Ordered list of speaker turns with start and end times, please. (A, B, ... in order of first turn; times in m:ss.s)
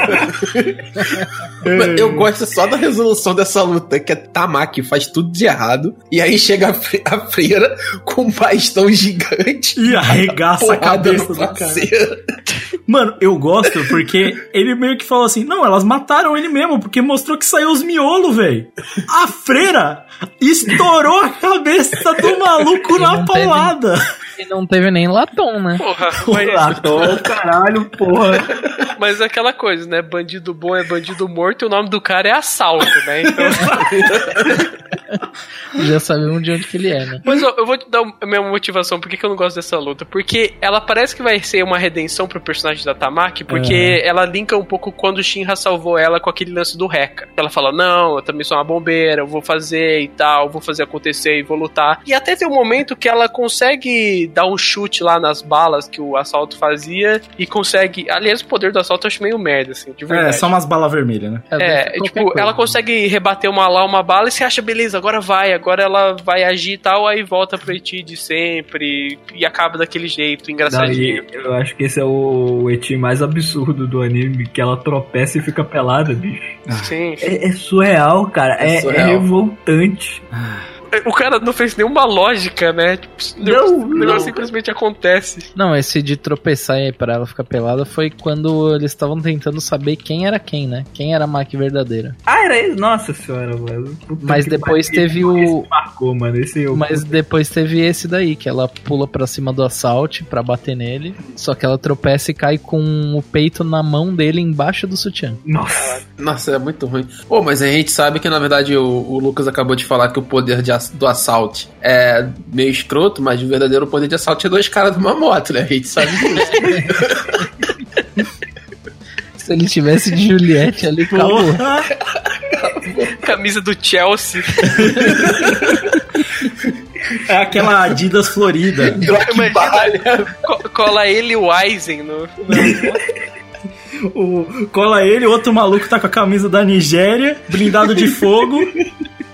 0:00.1-0:12.2 A
0:01.6-0:02.3 B
0:09.8-0:11.9 B
0:12.9-0:24.0 B
0:22.9-0:23.7 C
0:24.4-0:25.8 C
0:25.8-0:26.9 D
0:26.2-0:26.9 B
0:26.3-0:28.5 E
0:28.9-0:33.7 D
0:33.3-0:34.1 B
0:33.8-0:34.6 A
0:35.7-0:37.2 C
0:37.2-1:00.5 D
0:43.5-0:44.0 B
1:00.1-1:01.5 B
1:01.5-1:02.5 C
1:01.6-1:11.2 D
1:10.7-1:16.6 E
1:16.7-1:16.9 B
1:16.8-1:17.2 D
1:17.2-1:20.2 E
1:18.6-1:19.3 A
1:20.3-1:20.7 B
1:20.9-1:25.5 D
1:23.4-1:24.2 E
1:24.0-1:24.4 A
1:25.6-1:32.2 C
1:32.3-1:37.1 E
1:34.2-1:35.7 C
1:36.7-1:45.4 C
1:45.4-1:46.0 E
1:46.2-1:57.4 A
1:59.4-2:01.6 C
2:01.1-2:01.9 B
2:02.6-2:03.2 A
2:03.2-2:04.7 D
2:04.8-2:05.2 B
2:04.8-2:05.8 A
2:07.2-2:09.0 B
2:08.9-2:10.3 A
2:09.0-2:12.3 D
2:12.4-2:13.0 B
2:14.1-2:18.7 B